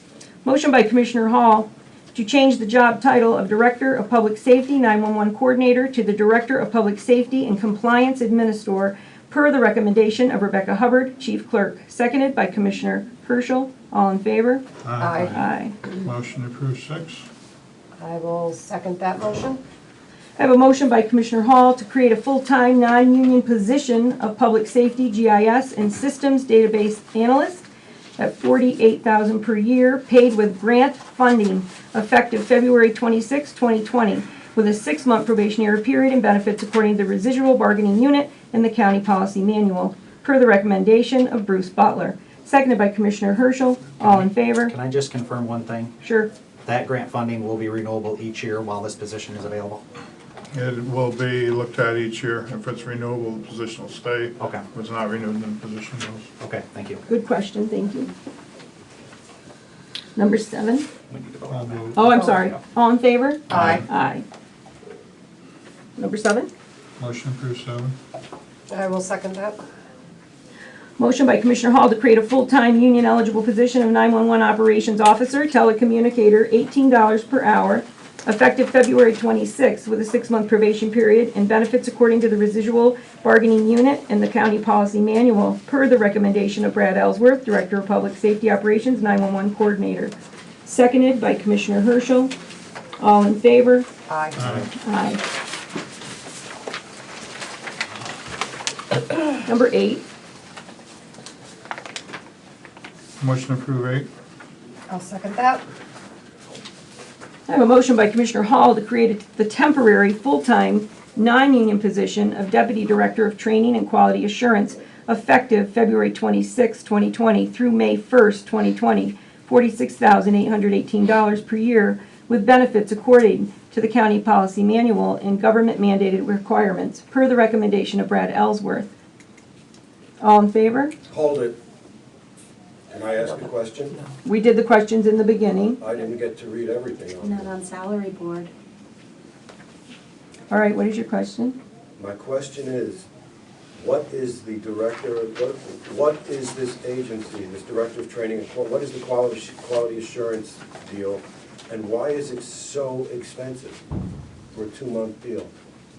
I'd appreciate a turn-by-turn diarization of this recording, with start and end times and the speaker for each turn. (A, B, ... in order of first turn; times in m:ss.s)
0:00.4-0:14.6 A
0:14.8-0:15.3 B
0:15.0-0:15.5 C
0:15.2-0:15.8 A
0:15.8-0:17.3 B
0:18.0-0:19.6 C
0:20.4-0:44.7 A
0:44.0-0:45.9 D
0:46.0-0:46.3 A
0:46.6-0:49.8 D
0:50.5-0:56.3 B
0:54.4-0:54.6 D
0:56.4-0:57.0 D
0:57.1-0:58.1 A
1:00.2-1:00.9 A
1:01.1-1:02.6 D
1:01.5-1:02.1 B
1:01.9-1:04.2 A
1:03.5-1:03.8 D
1:06.0-1:06.5 A
1:07.0-1:08.0 B
1:08.7-1:09.6 C
1:11.0-1:32.3 A
1:33.0-1:33.9 A
1:34.1-1:34.4 C
1:34.4-1:34.7 B
1:34.7-1:35.2 A
1:39.4-1:40.0 A
1:43.2-1:44.1 B
1:44.9-1:45.6 C
1:47.5-2:08.9 A
2:10.2-2:10.9 A
2:11.1-2:11.6 E
2:12.9-2:14.0 E
2:14.2-2:15.8 A
2:15.8-2:17.5 E
2:17.2-2:18.5 C
2:20.5-2:21.6 A
2:22.0-2:23.1 E
2:23.8-2:33.8 E
2:34.5-2:35.5 E